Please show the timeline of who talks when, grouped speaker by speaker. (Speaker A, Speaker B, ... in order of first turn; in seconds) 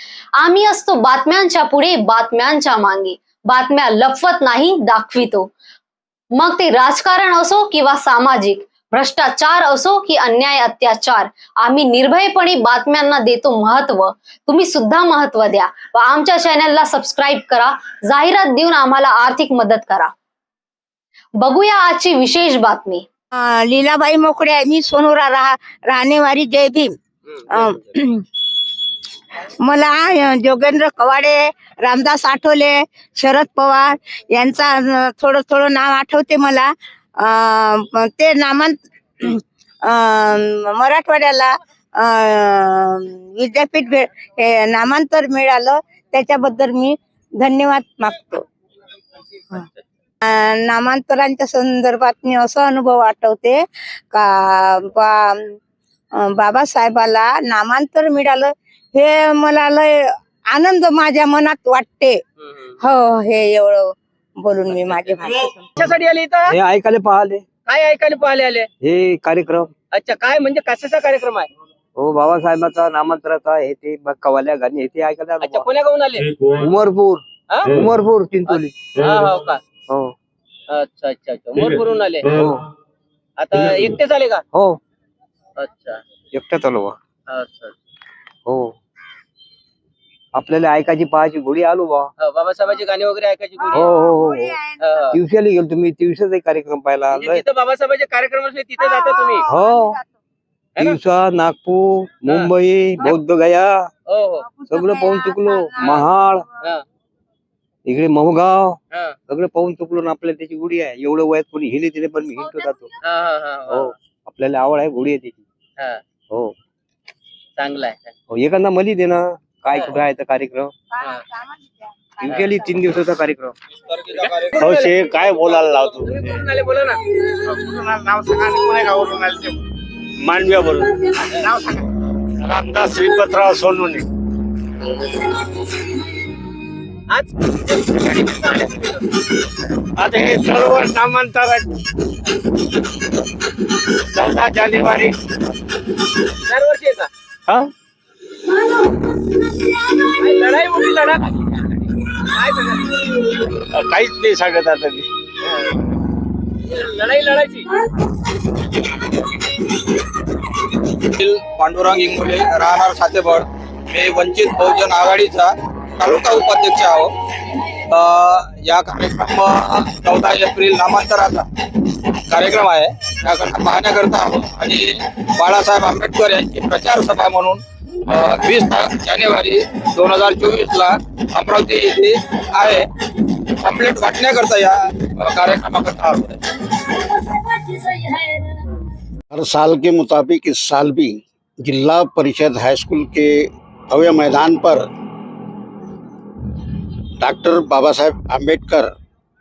Speaker A: 0.4-5.5, 6.3-20.1, 21.4-23.1
Speaker B: 23.4-26.9, 27.5-28.2, 29.6-48.4, 50.2-55.5, 56.2-62.2, 62.8-65.7, 93.7-95.1, 98.8-100.1, 104.5-106.1, 121.1-122.4
Speaker C: 62.4-62.7, 64.8-65.2, 65.8-66.5, 67.7-68.7, 69.9-71.5, 75.4-76.4, 77.5-77.8, 78.5-79.6, 80.7-82.4, 83.4-84.4, 85.6-86.0, 87.3-87.8, 92.2-93.9, 94.8-95.2, 97.1-99.5, 104.1-104.5, 113.0-113.9, 117.6-118.1, 122.3-122.5, 124.1-127.2, 137.1-139.0, 146.4-147.1, 150.1-153.3, 155.4-155.8, 156.7-157.7
Speaker D: 66.5-67.5, 68.8-69.7, 72.0-75.7, 76.4-78.8, 79.9-80.1, 82.3-82.6, 84.5-84.8, 86.3-87.0, 88.5-88.7, 90.3-92.1, 93.7-94.6, 95.1-97.4, 99.5-100.0, 100.8-103.9, 104.7-106.5, 107.9-112.9, 113.7-115.4, 118.3-120.7, 122.2-123.5
Speaker E: 123.8-124.6, 161.0-167.1, 167.9-171.5, 172.3-182.9, 183.6-186.4
Speaker F: 124.6-126.5, 127.5-129.6, 130.2-134.1, 140.0-141.7, 144.1-145.2, 153.7-155.1
Speaker G: 189.3-194.9, 197.2-198.9